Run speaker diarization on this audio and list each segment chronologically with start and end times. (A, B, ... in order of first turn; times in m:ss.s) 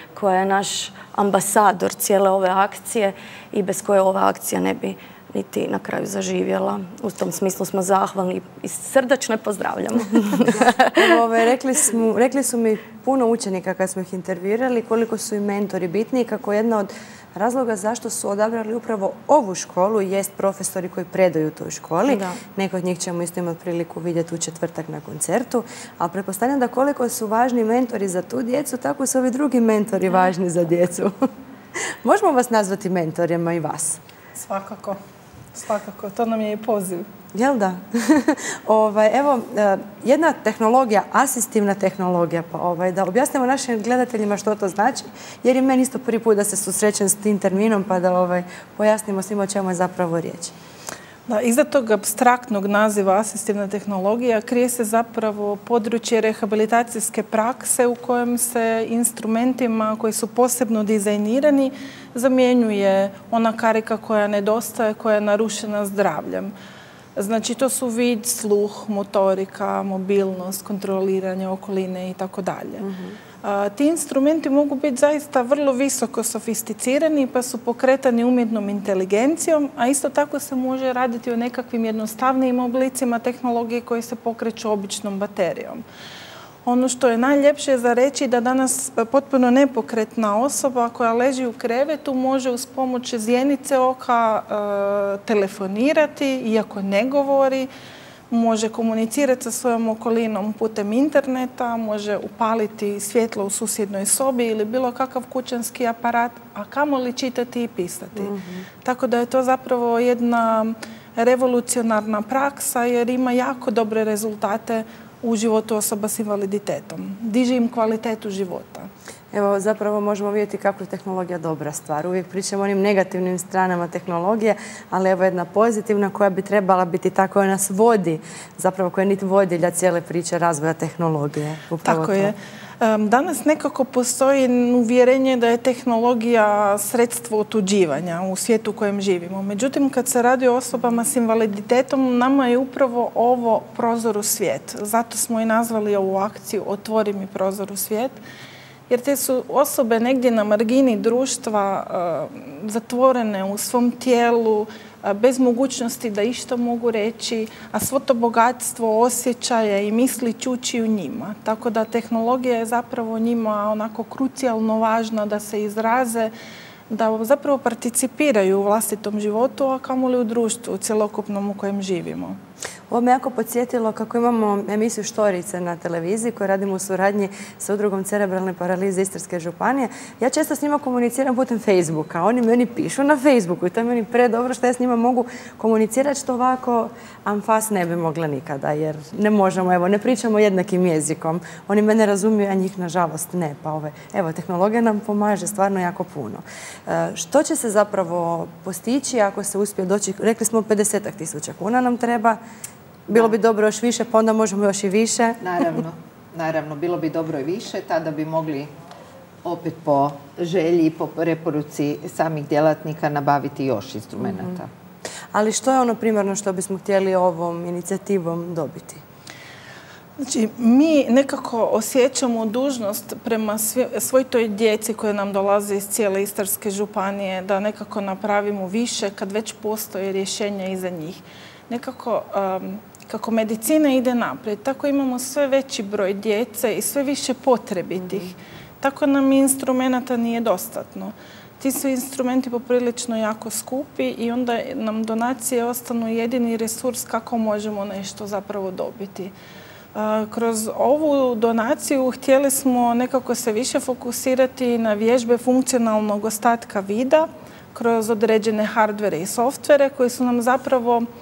0:00.1-0:11.2 A
0:11.0-0:31.1 B
0:22.1-0:22.4 A
0:31.8-0:34.0 B
0:34.4-0:35.0 C
0:35.5-0:37.1 C
0:37.3-0:50.6 B
0:51.3-1:06.5 C
1:07.2-1:12.9 C
1:12.8-1:13.2 B
1:13.4-1:25.8 C
1:26.6-1:37.7 C
1:38.3-1:58.9 C
1:48.2-1:48.6 B
1:59.3-2:12.3 B
2:11.8-2:28.2 C
2:28.9-2:46.3 C
2:46.9-2:52.4 C
2:52.9-3:22.4 B
3:23.1-3:25.8 B
3:23.1-3:23.4 D
3:25.4-3:28.7 D
3:29.4-3:34.7 D
3:34.2-3:34.6 B
3:35.3-3:39.0 B
3:40.2-4:09.3 C
4:10.0-4:21.1 C